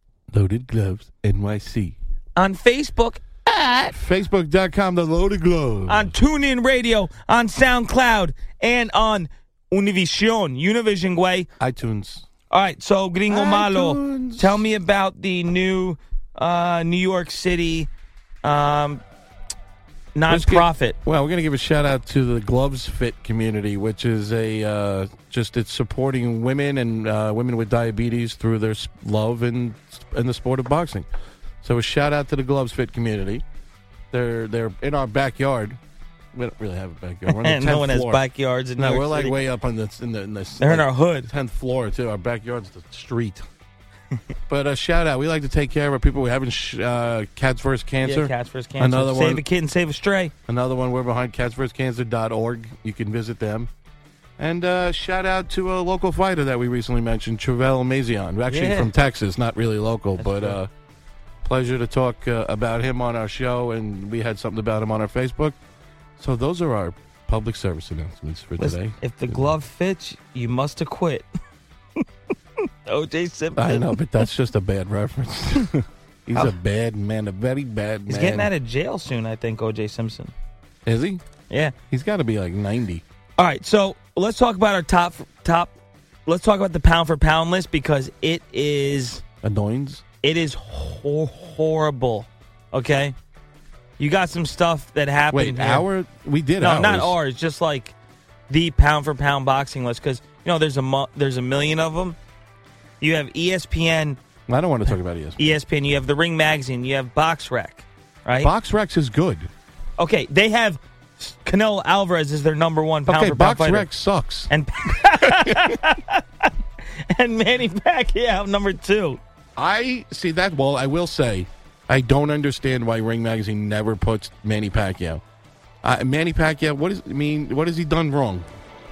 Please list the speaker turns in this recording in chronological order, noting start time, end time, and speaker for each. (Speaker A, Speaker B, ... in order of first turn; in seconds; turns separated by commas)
Speaker A: 0.3-2.0, Speaker B: 2.4-3.9, Speaker A: 3.9-6.1, Speaker B: 5.9-11.5, Speaker A: 11.6-12.2, Speaker B: 12.5-17.9, Speaker A: 13.3-14.6, Speaker B: 18.4-19.0, Speaker B: 20.1-21.0, Speaker A: 20.3-31.1, Speaker A: 31.6-33.4, Speaker A: 34.1-35.8, Speaker A: 36.3-38.2, Speaker B: 37.2-39.4, Speaker A: 38.8-43.5, Speaker B: 40.6-41.3, Speaker A: 44.5-49.4, Speaker B: 48.0-50.3, Speaker A: 50.5-53.7, Speaker A: 54.4-60.7, Speaker B: 58.5-58.9, Speaker B: 60.2-60.6, Speaker A: 61.4-65.6, Speaker A: 66.2-69.5, Speaker B: 68.6-71.2, Speaker B: 72.6-74.0, Speaker A: 73.6-78.5, Speaker B: 78.1-80.3, Speaker A: 80.8-81.2, Speaker B: 81.5-81.8, Speaker A: 81.9-83.0, Speaker B: 83.4-85.7, Speaker B: 86.3-89.2, Speaker A: 89.4-90.0, Speaker B: 90.2-93.2, Speaker B: 94.0-95.8, Speaker A: 95.3-97.2, Speaker B: 96.6-97.9, Speaker B: 98.5-102.2, Speaker B: 103.0-104.2, Speaker A: 104.5-105.6, Speaker B: 105.4-108.5, Speaker A: 108.4-109.5, Speaker B: 110.0-113.9, Speaker A: 113.1-115.8, Speaker B: 114.5-119.2, Speaker A: 119.6-125.2, Speaker A: 125.8-128.5